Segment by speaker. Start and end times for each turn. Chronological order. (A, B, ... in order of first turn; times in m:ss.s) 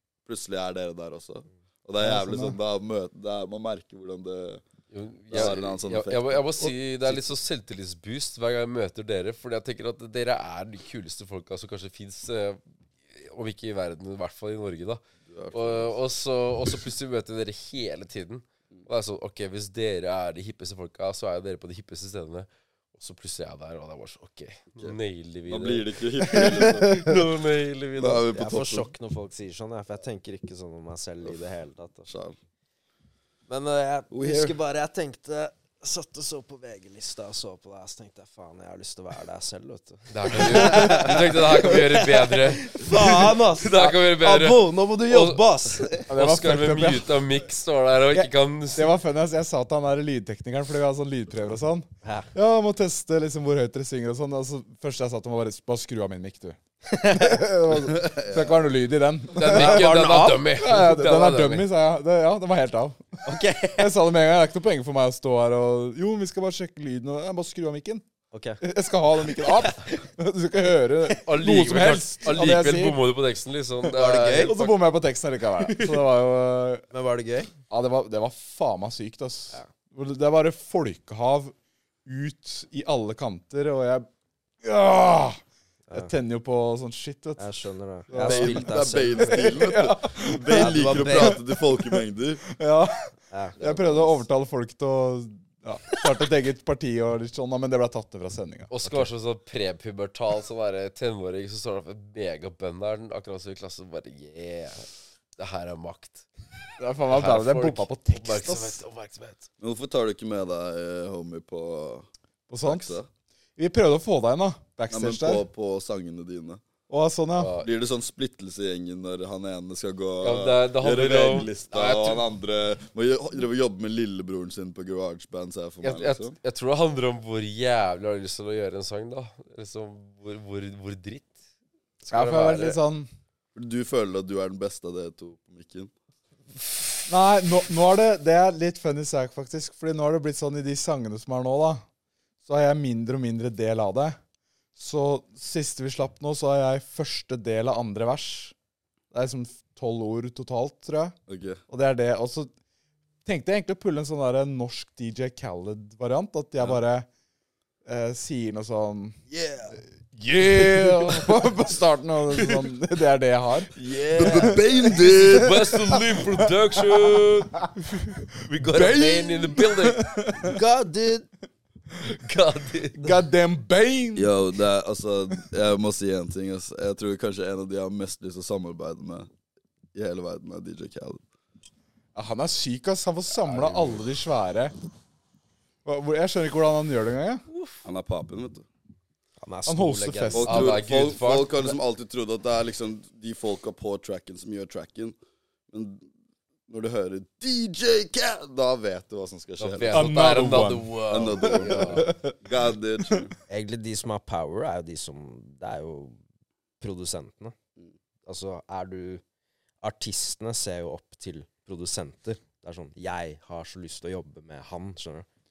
0:00.3-0:04.6 A
0:02.0-0:02.6 B
0:04.9-0:28.3 C
0:05.3-0:07.2 A
0:15.3-0:16.0 A
0:25.5-0:27.1 A
0:26.3-0:27.1 B
0:28.0-0:28.9 A
0:28.3-0:32.1 D
0:32.1-0:32.4 A
0:33.5-0:46.1 D
0:34.1-0:34.6 A
0:40.1-0:49.0 C
0:46.1-0:47.2 B
0:48.1-1:00.0 B
0:52.0-0:52.3 D
0:56.9-0:57.4 D
0:57.9-0:58.6 A
0:59.4-1:01.7 C
0:59.5-1:00.4 D
1:00.5-1:03.2 B
1:03.2-1:03.9 D
1:03.8-1:08.0 B
1:08.3-1:08.6 D
1:08.6-1:13.0 B
1:09.4-1:09.9 D
1:11.2-1:14.8 C
1:13.8-1:16.9 B
1:13.9-1:14.6 D
1:15.6-1:15.9 C
1:16.9-1:17.5 D
1:17.7-1:21.6 B
1:22.1-1:24.1 B
1:24.6-1:25.4 B
1:25.9-1:27.5 B
1:27.4-1:29.6 D
1:28.1-1:38.7 B
1:28.2-1:32.4 A
1:30.5-1:31.4 D
1:33.3-1:33.6 D
1:33.6-1:34.1 A
1:38.7-1:44.9 C
1:45.4-1:46.3 C
1:46.8-1:48.8 B
1:47.1-1:49.5 C
1:49.6-1:52.1 A
1:52.5-1:53.0 B
1:52.6-1:53.1 A
1:53.6-1:55.4 B
1:54.9-1:56.6 A
1:56.9-1:57.5 B
1:57.4-1:57.7 C
1:57.6-2:06.4 A
2:00.2-2:02.2 C
2:05.8-2:11.4 C
2:12.0-2:12.8 C
2:12.1-2:13.1 B
2:13.6-2:15.9 A
2:17.1-2:21.8 B
2:22.4-2:24.2 B
2:24.8-2:28.6 B
2:29.1-2:31.2 B
2:31.3-2:31.6 A
2:31.7-2:32.5 B
2:33.2-2:37.1 B
2:37.9-2:39.2 B
2:39.3-2:39.7 A
2:40.1-2:47.3 B
2:43.8-2:44.5 D
2:44.1-2:45.6 A
2:45.0-2:50.1 C
2:48.7-2:50.6 B
2:50.4-2:51.3 D
2:52.1-2:53.2 C
2:53.0-2:54.4 B
2:54.2-2:59.3 A
2:59.9-3:01.2 A
3:02.2-3:04.7 B
3:05.8-3:07.4 B
3:07.5-3:07.8 C
3:07.8-3:08.7 A
3:09.4-3:10.6 D
3:09.7-3:10.8 B
3:10.3-3:15.2 A
3:10.4-3:11.7 C
3:15.7-3:16.1 A
3:16.7-3:20.1 A
3:19.6-3:22.1 C
3:19.9-3:20.9 B
3:21.1-3:23.3 A
3:21.4-3:22.4 B
3:23.5-3:26.2 D
3:26.8-3:27.6 D
3:28.2-3:29.2 D
3:29.8-3:35.3 D